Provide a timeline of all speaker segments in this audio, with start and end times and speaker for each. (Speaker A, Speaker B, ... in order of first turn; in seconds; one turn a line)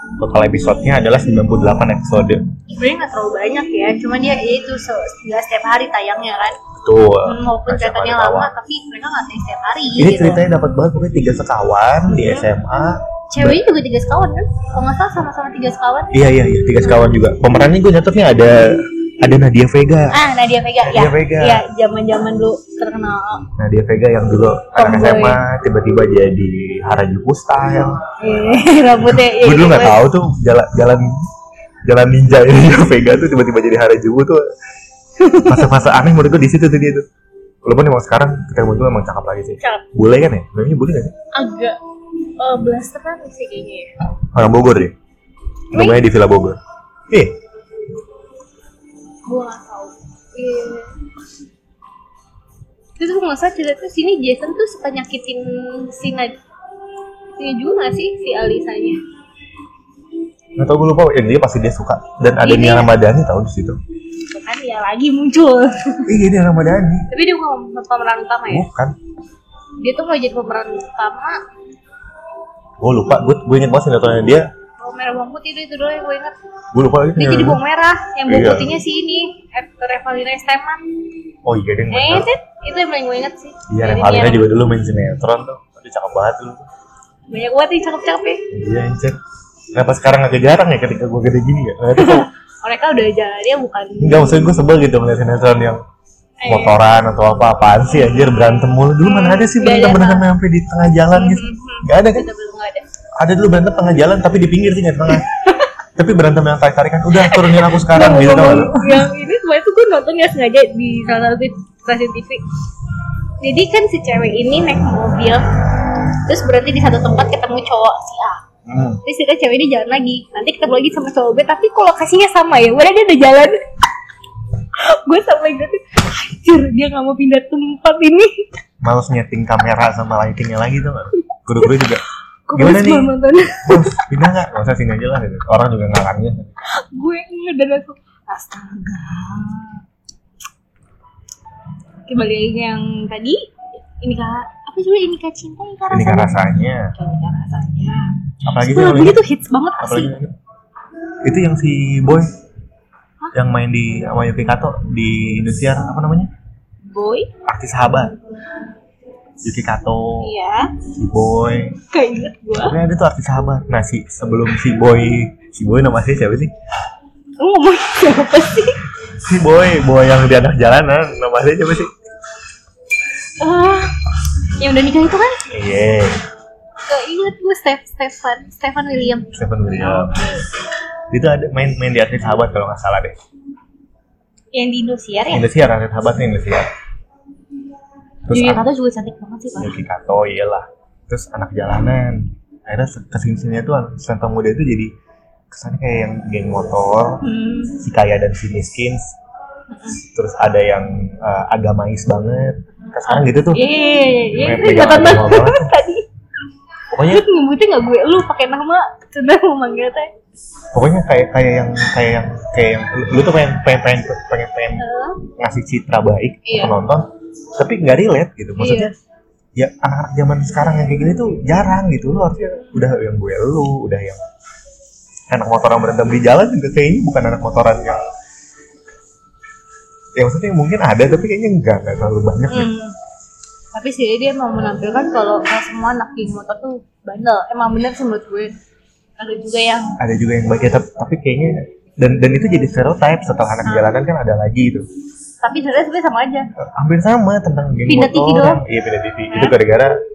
Speaker A: 0.2-2.5
Speaker B: 2.7-6.6
Speaker A: 6.8-8.5
Speaker B: 7.3-10.4
Speaker A: 10.0-13.6
Speaker B: 12.1-12.5
Speaker B: 13.3-16.1
Speaker A: 16.1-20.2
Speaker B: 20.1-23.5
Speaker A: 20.8-21.6
Speaker A: 23.6-28.1
Speaker B: 24.8-25.4
Speaker B: 28.2-30.0
Speaker A: 29.0-31.2
Speaker A: 31.9-34.5
Speaker B: 35.2-35.7
Speaker A: 35.5-37.0
Speaker A: 37.6-41.1
Speaker B: 39.6-39.9
Speaker B: 41.3-41.8
Speaker B: 42.4-43.9
Speaker A: 44.3-45.0
Speaker A: 45.7-46.6
Speaker B: 45.7-46.0
Speaker A: 47.1-47.4
Speaker B: 49.2-51.0
Speaker B: 53.0-56.4
Speaker B: 57.4-59.0
Speaker A: 60.6-63.8
Speaker B: 62.4-62.9
Speaker B: 64.3-66.1
Speaker A: 66.1-67.1
Speaker B: 67.1-68.7
Speaker A: 68.5-69.0
Speaker B: 69.8-71.4
Speaker A: 72.8-74.5
Speaker B: 74.8-76.3
Speaker A: 76.7-77.6
Speaker B: 77.2-80.8
Speaker A: 78.3-78.7
Speaker A: 81.5-82.3
Speaker B: 81.9-84.5
Speaker A: 83.7-86.7
Speaker B: 87.3-88.5
Speaker A: 88.5-89.2
Speaker A: 89.7-92.3
Speaker B: 92.0-94.6
Speaker A: 94.0-95.8
Speaker B: 96.4-96.8
Speaker A: 96.5-102.3
Speaker B: 99.0-100.3
Speaker B: 101.1-102.8
Speaker A: 103.2-105.3
Speaker B: 105.2-105.7
Speaker A: 106.0-109.1
Speaker B: 107.2-112.4
Speaker B: 113.4-115.5
Speaker B: 116.2-118.4
Speaker A: 118.7-119.0
Speaker B: 119.0-123.6
Speaker B: 124.8-128.4
Speaker A: 128.8-132.0
Speaker B: 132.5-134.1
Speaker A: 132.6-133.1
Speaker A: 133.7-136.5
Speaker B: 136.7-139.8
Speaker B: 142.1-146.3
Speaker A: 145.9-146.9
Speaker B: 146.9-150.1
Speaker A: 148.4-149.2
Speaker A: 149.8-150.3
Speaker A: 151.2-152.3
Speaker A: 153.3-156.3
Speaker B: 156.9-157.3
Speaker A: 157.4-158.2
Speaker A: 159.4-160.3
Speaker B: 160.2-160.7
Speaker A: 160.9-161.8
Speaker B: 161.9-162.8
Speaker A: 162.6-166.5
Speaker B: 167.4-168.8
Speaker A: 169.1-171.9
Speaker B: 173.4-175.4
Speaker A: 175.5-176.2
Speaker B: 176.9-180.5
Speaker A: 179.3-180.2
Speaker A: 181.1-183.2
Speaker B: 184.5-185.5
Speaker A: 185.3-186.7
Speaker A: 188.3-188.6
Speaker B: 188.3-189.8
Speaker A: 189.6-194.9
Speaker A: 195.5-197.2
Speaker B: 197.2-197.8
Speaker A: 197.8-199.2
Speaker B: 199.7-200.0
Speaker A: 200.0-203.6
Speaker B: 203.1-206.1
Speaker A: 204.3-205.7
Speaker A: 206.9-207.2
Speaker B: 207.1-210.1
Speaker A: 210.7-218.9
Speaker B: 214.8-215.2
Speaker B: 216.4-216.8
Speaker B: 218.6-218.9
Speaker A: 219.6-224.2
Speaker A: 225.3-228.0
Speaker A: 230.2-232.7
Speaker B: 232.5-232.9
Speaker B: 233.7-238.5
Speaker B: 239.2-240.0
Speaker A: 240.0-244.9
Speaker B: 245.4-246.5
Speaker A: 246.6-250.0
Speaker B: 247.9-248.6
Speaker B: 249.3-249.6